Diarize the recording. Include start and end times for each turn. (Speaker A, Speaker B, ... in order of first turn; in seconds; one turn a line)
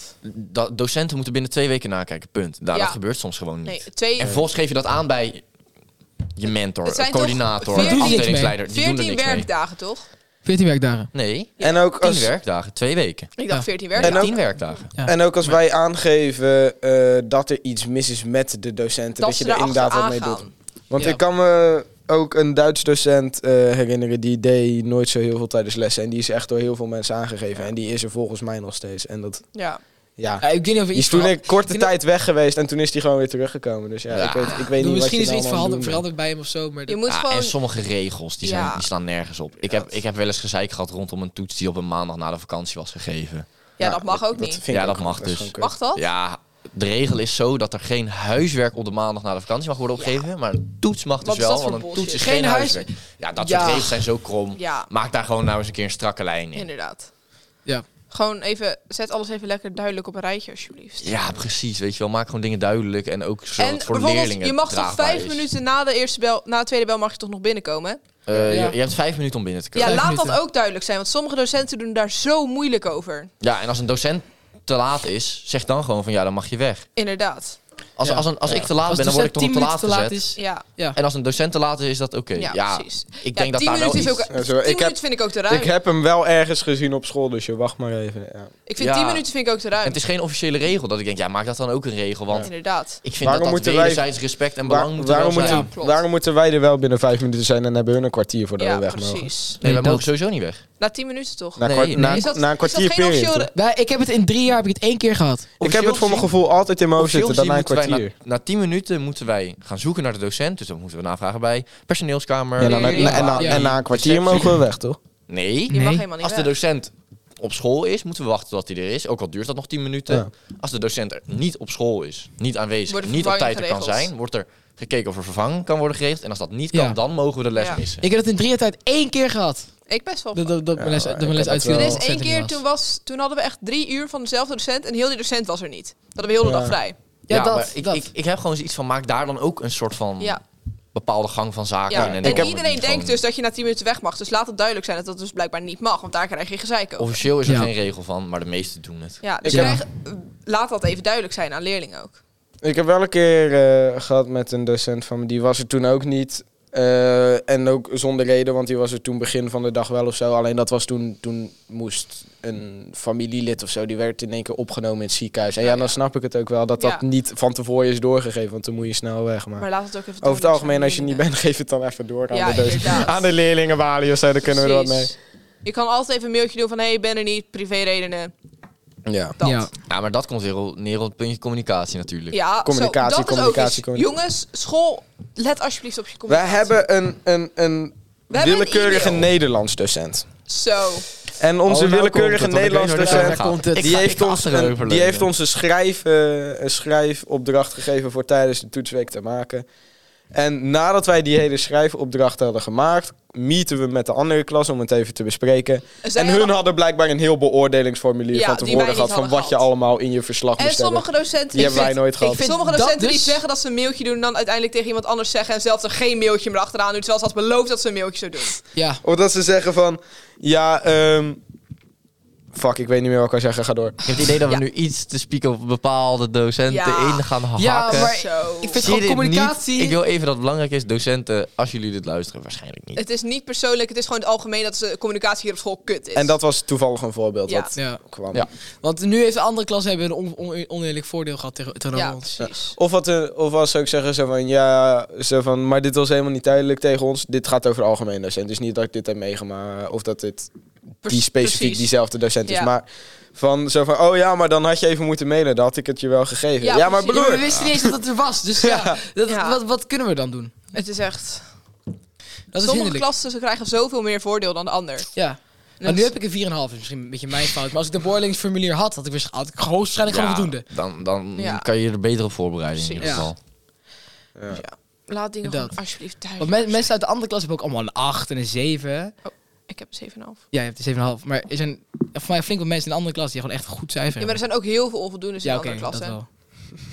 Speaker A: 0.2-5.4
Speaker B: 2.7-3.0
Speaker B: 3.6-4.3
Speaker A: 6.3-9.5
Speaker B: 6.8-10.0
Speaker C: 7.7-8.6
Speaker C: 10.4-11.1
Speaker A: 11.1-13.3
Speaker B: 11.6-11.9
Speaker D: 11.6-12.3
Speaker B: 13.4-14.4
Speaker A: 13.9-14.9
Speaker D: 14.0-14.4
Speaker D: 15.0-29.4
Speaker B: 19.2-20.5
Speaker B: 29.6-29.8
Speaker D: 30.2-36.0
Speaker C: 30.4-31.9
Speaker A: 34.1-34.6
Speaker C: 34.8-37.0
Speaker B: 36.9-37.6
Speaker A: 37.1-43.5
Speaker B: 38.4-38.9
Speaker B: 43.8-44.6
Speaker D: 43.8-45.7
Speaker A: 44.7-56.7
Speaker B: 45.6-46.0
Speaker B: 50.0-50.2
Speaker B: 51.2-52.3
Speaker C: 51.9-54.0
Speaker B: 54.5-54.9
Speaker B: 56.5-57.1
Speaker B: 58.1-61.1
Speaker A: 61.0-65.5
Speaker B: 63.6-68.0
Speaker A: 68.3-70.0
Speaker C: 68.4-68.8
Speaker B: 69.8-73.3
Speaker C: 69.8-70.4
Speaker A: 73.4-76.9
Speaker B: 77.0-77.6
Speaker A: 78.0-80.3
Speaker C: 78.0-81.0
Speaker B: 80.4-80.6
Speaker A: 81.0-84.2
Speaker B: 82.4-85.7
Speaker D: 84.3-88.5
Speaker B: 88.7-90.0
Speaker A: 88.8-89.2
Speaker A: 89.8-92.5
Speaker B: 92.4-93.0
Speaker A: 93.0-95.7
Speaker D: 93.2-99.3
Speaker B: 95.4-96.0
Speaker C: 95.4-95.7
Speaker B: 98.6-99.6
Speaker A: 99.6-100.6
Speaker C: 99.6-100.0
Speaker B: 100.8-103.5
Speaker D: 101.6-103.5
Speaker A: 101.6-102.1
Speaker C: 101.9-102.3
Speaker C: 103.5-105.5
Speaker A: 105.6-106.3
Speaker D: 105.6-108.1
Speaker A: 107.0-114.6
Speaker D: 112.6-115.0
Speaker B: 112.6-113.5
Speaker C: 112.9-113.7
Speaker A: 115.3-128.0
Speaker B: 115.7-116.5
Speaker C: 115.7-116.0
Speaker B: 122.9-124.1
Speaker C: 126.7-127.0
Speaker B: 127.5-127.8
Speaker C: 128.0-129.7
Speaker B: 129.9-130.5
Speaker C: 130.3-132.6
Speaker D: 130.8-132.0
Speaker B: 131.7-137.0
Speaker D: 136.4-136.8
Speaker C: 137.3-138.1
Speaker A: 137.3-140.4
Speaker A: 140.9-143.2
Speaker B: 141.9-147.2
Speaker D: 141.9-142.5
Speaker A: 147.0-149.2
Speaker C: 147.5-147.7
Speaker B: 149.2-152.2
Speaker D: 149.4-149.8
Speaker C: 149.5-149.8
Speaker D: 152.6-169.7
Speaker B: 165.6-165.9
Speaker B: 169.6-171.2
Speaker D: 170.2-175.1
Speaker B: 172.3-173.3
Speaker B: 174.5-178.3
Speaker D: 179.1-179.4
Speaker B: 179.4-179.7
Speaker C: 179.4-179.7
Speaker A: 179.9-182.4
Speaker B: 182.3-186.8
Speaker D: 182.7-184.1
Speaker D: 186.3-190.3
Speaker B: 188.3-189.3
Speaker B: 190.5-191.1
Speaker D: 191.4-199.7
Speaker A: 191.7-195.3
Speaker C: 193.0-194.0
Speaker D: 200.3-212.4
Speaker B: 206.0-206.6
Speaker B: 208.3-209.7
Speaker B: 210.6-218.6
Speaker C: 212.2-213.4
Speaker C: 218.8-219.0
Speaker D: 219.0-221.4
Speaker D: 222.5-224.0
Speaker A: 224.0-228.1
Speaker B: 226.7-227.2
Speaker C: 227.6-230.0
Speaker B: 227.9-228.8
Speaker A: 228.7-233.0
Speaker B: 232.9-236.3
Speaker D: 236.1-238.5
Speaker B: 237.5-237.7
Speaker C: 237.8-238.0
Speaker C: 238.8-242.4
Speaker B: 241.9-242.8
Speaker D: 242.4-250.5
Speaker B: 251.0-251.9
Speaker D: 251.1-257.9
Speaker B: 252.5-252.7
Speaker B: 256.6-257.4
Speaker C: 257.1-260.7
Speaker D: 258.6-259.0
Speaker B: 259.3-259.6
Speaker B: 260.7-261.5
Speaker C: 262.5-263.1
Speaker B: 262.6-265.1
Speaker C: 265.1-270.6
Speaker B: 265.8-266.1
Speaker A: 270.1-273.4
Speaker B: 271.4-271.7
Speaker B: 272.8-273.3
Speaker C: 273.0-273.3
Speaker D: 274.4-274.6
Speaker B: 274.5-276.9
Speaker C: 275.4-275.8
Speaker C: 276.4-279.1
Speaker B: 279.2-280.4
Speaker C: 280.5-284.4
Speaker B: 284.2-286.2
Speaker C: 285.4-286.3